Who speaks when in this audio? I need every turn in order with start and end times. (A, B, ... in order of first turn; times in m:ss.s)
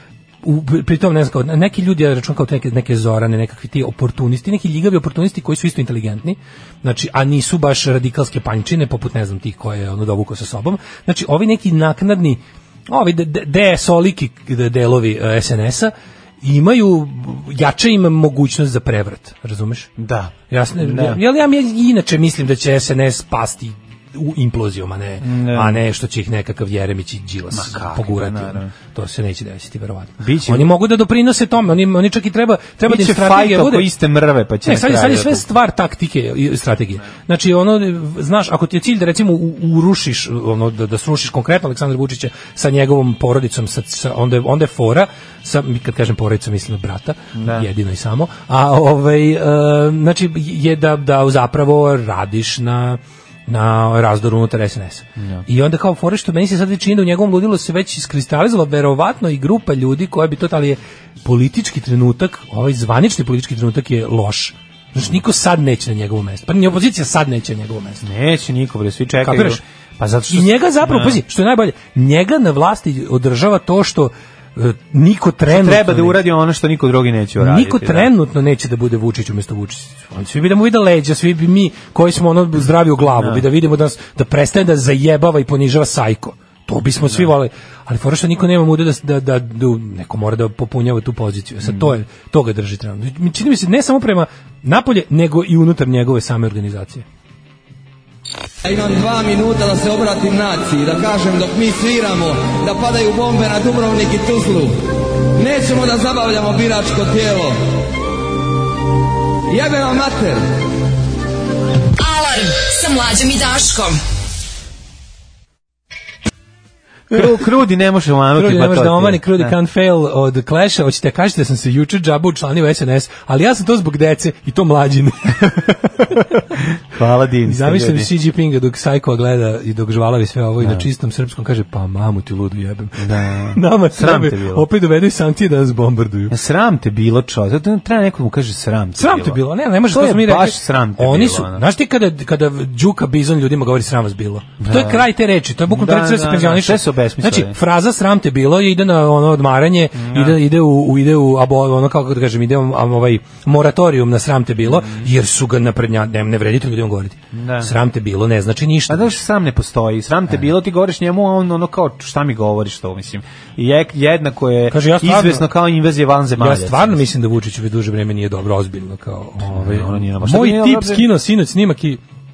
0:00.4-0:19.9 A
0:20.0-0:21.2 B
0:20.5-0:33.9 A
0:25.2-0:25.8 B
0:27.5-0:28.7 B
0:30.2-0:30.7 B
0:32.8-0:35.5 B
0:34.6-1:08.0 A
0:47.4-0:47.7 B
0:55.2-0:55.4 B
1:08.0-1:11.2 B
1:09.2-1:09.6 A
1:10.3-1:16.2 A
1:15.5-1:18.1 B
1:17.4-1:37.0 A
1:23.2-1:23.5 B
1:27.0-1:27.3 B
1:31.6-1:31.9 B
1:38.6-1:47.6 C
1:49.5-1:50.5 C
1:52.0-1:54.0 D
1:57.1-1:59.6 B
1:58.4-2:06.2 A
2:06.9-2:08.1 B
2:07.5-2:16.4 A
2:10.6-2:10.9 B
2:13.0-2:14.7 B
2:16.3-2:21.6 B
2:19.0-2:39.2 A
2:24.6-2:25.1 B
2:25.7-2:27.6 B
2:30.0-2:30.4 B
2:34.6-2:35.1 B
2:37.3-2:37.7 B
2:38.9-2:47.0 B
2:44.7-2:45.5 A
2:46.4-2:52.0 A
2:49.5-2:51.0 B